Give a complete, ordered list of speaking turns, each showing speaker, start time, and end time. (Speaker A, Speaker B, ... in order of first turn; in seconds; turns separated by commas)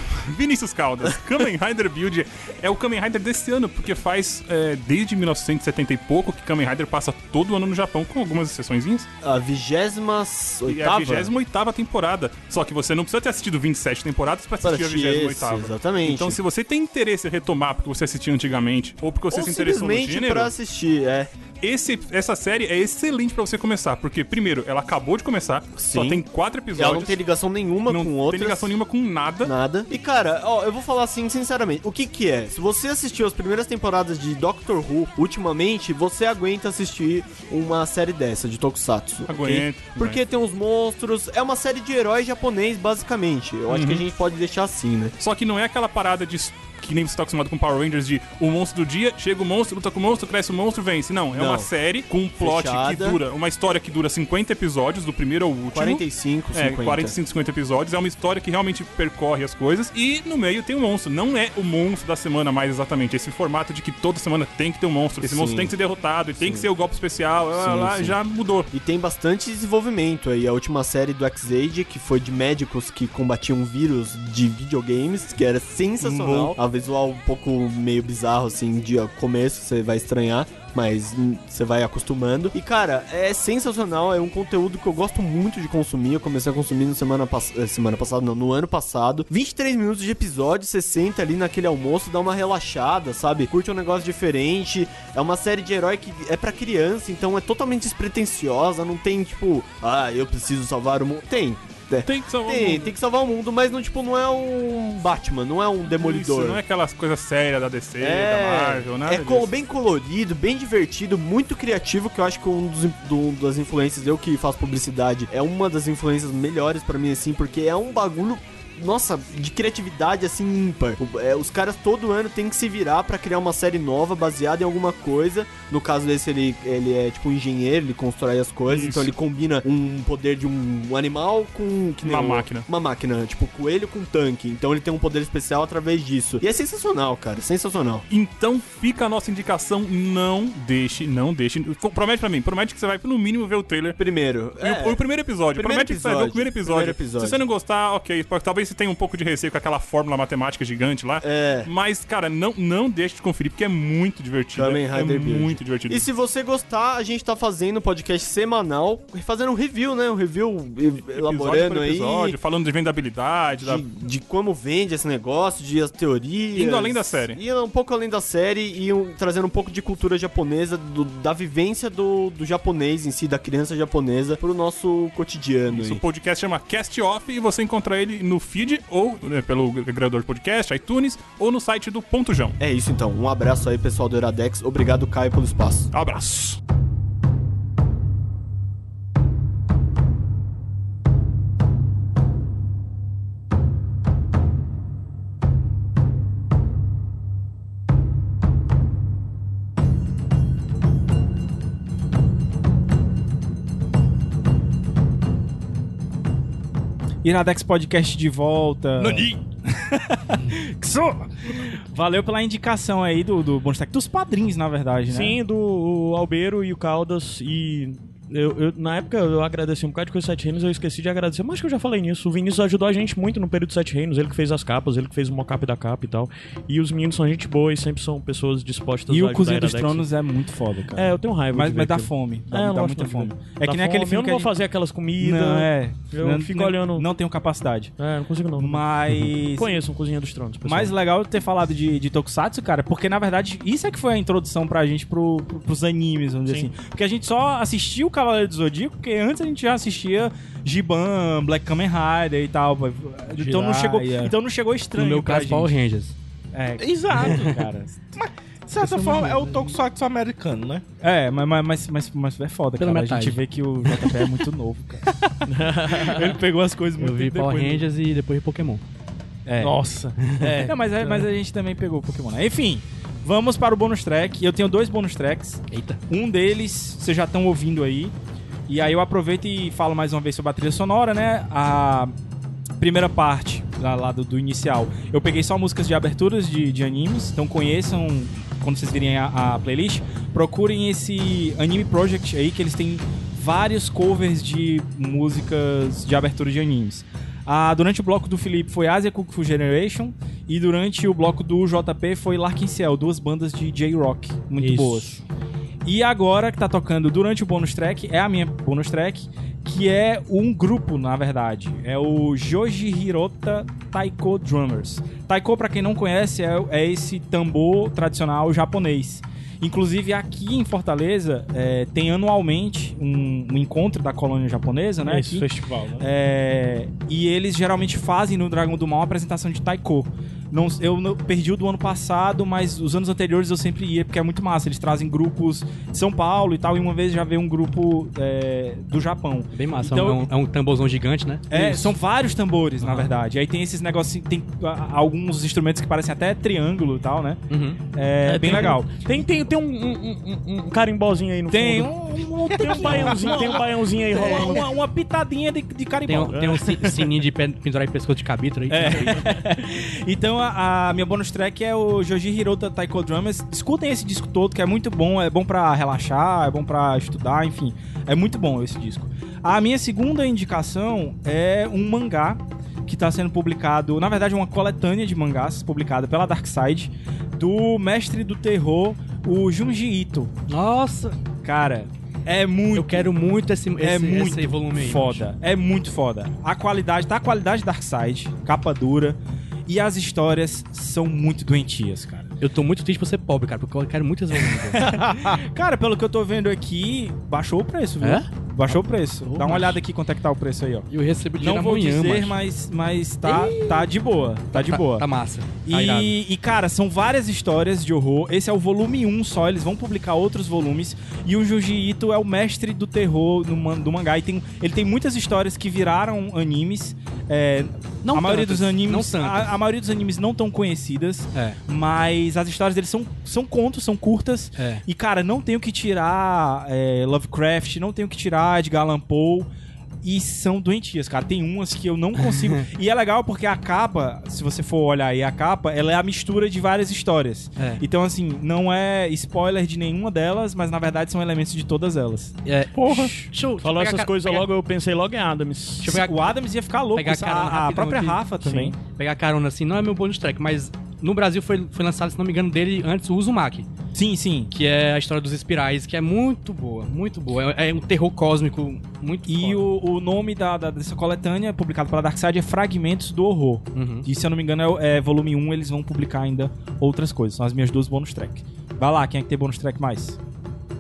Speaker A: 0.1-9.1, Speaker B: 9.2-11.3, Speaker A: 10.7-20.5, Speaker B: 14.6-16.4, Speaker B: 19.3-21.3, Speaker A: 21.6-27.2, Speaker B: 25.8-26.2, Speaker B: 26.8-28.7, Speaker A: 27.9-29.5, Speaker B: 29.4-45.1, Speaker A: 39.3-40.2, Speaker A: 43.7-44.0, Speaker A: 45.2-68.7, Speaker B: 51.3-51.7, Speaker B: 52.4-53.2, Speaker B: 55.7-57.2, Speaker B: 65.2-65.8, Speaker B: 66.4-66.7, Speaker B: 67.5-68.2, Speaker B: 68.7-106.6, Speaker A: 76.0-76.6, Speaker A: 102.0-103.0, Speaker A: 105.8-109.5, Speaker B: 108.0-138.1, Speaker A: 128.7-129.1, Speaker A: 132.0-132.7, Speaker A: 138.1-144.0, Speaker B: 144.0-147.4, Speaker A: 144.6-156.1, Speaker B: 151.2-151.7, Speaker B: 154.5-162.4, Speaker A: 161.1-163.8, Speaker B: 163.6-176.0, Speaker A: 166.5-167.4, Speaker A: 175.7-182.6, Speaker B: 182.6-185.9, Speaker A: 185.9-186.6, Speaker C: 207.2-215.4, Speaker D: 215.1-230.1, Speaker C: 229.1-234.5, Speaker D: 230.9-237.1, Speaker C: 235.2-237.9, Speaker D: 238.0-240.9, Speaker C: 238.6-239.8, Speaker C: 240.7-255.8, Speaker E: 253.3-254.3, Speaker F: 254.9-256.1, Speaker C: 256.5-257.9, Speaker E: 256.8-260.8, Speaker F: 257.2-257.5, Speaker F: 258.8-259.7, Speaker C: 261.0-265.2, Speaker F: 262.8-263.4, Speaker D: 265.5-266.4, Speaker C: 265.9-267.8, Speaker F: 267.0-268.8, Speaker C: 269.5-269.8, Speaker E: 269.6-271.1, Speaker C: 270.4-278.1, Speaker F: 275.7-276.0, Speaker C: 278.7-282.1, Speaker C: 282.8-305.2, Speaker E: 304.6-305.2, Speaker C: 305.8-325.5, Speaker E: 325.1-326.1, Speaker C: 326.0-340.3, Speaker F: 339.5-341.9, Speaker C: 341.5-349.3, Speaker F: 342.8-343.1, Speaker F: 347.5-347.8, Speaker D: 348.2-354.7, Speaker C: 351.5-356.6, Speaker F: 356.1-359.2, Speaker D: 356.3-357.1, Speaker C: 358.7-380.3, Speaker F: 380.5-381.2, Speaker C: 381.4-383.1, Speaker F: 382.7-385.2, Speaker C: 383.8-392.3, Speaker F: 392.4-394.9, Speaker C: 394.8-405.1, Speaker F: 398.0-398.3, Speaker F: 399.2-399.8, Speaker F: 400.9-402.4, Speaker F: 403.2-403.9, Speaker F: 404.5-406.2, Speaker C: 405.6-429.5, Speaker F: 418.0-419.5, Speaker F: 424.6-424.8, Speaker C: 430.0-442.4, Speaker F: 432.2-432.7, Speaker F: 442.4-444.5, Speaker E: 442.7-443.1, Speaker D: 443.6-445.9, Speaker F: 445.8-446.3, Speaker C: 445.8-448.8, Speaker F: 446.9-448.2, Speaker D: 448.4-448.8, Speaker F: 448.9-453.7, Speaker C: 453.9-454.5, Speaker F: 454.5-459.7, Speaker C: 459.3-470.2, Speaker F: 463.8-464.1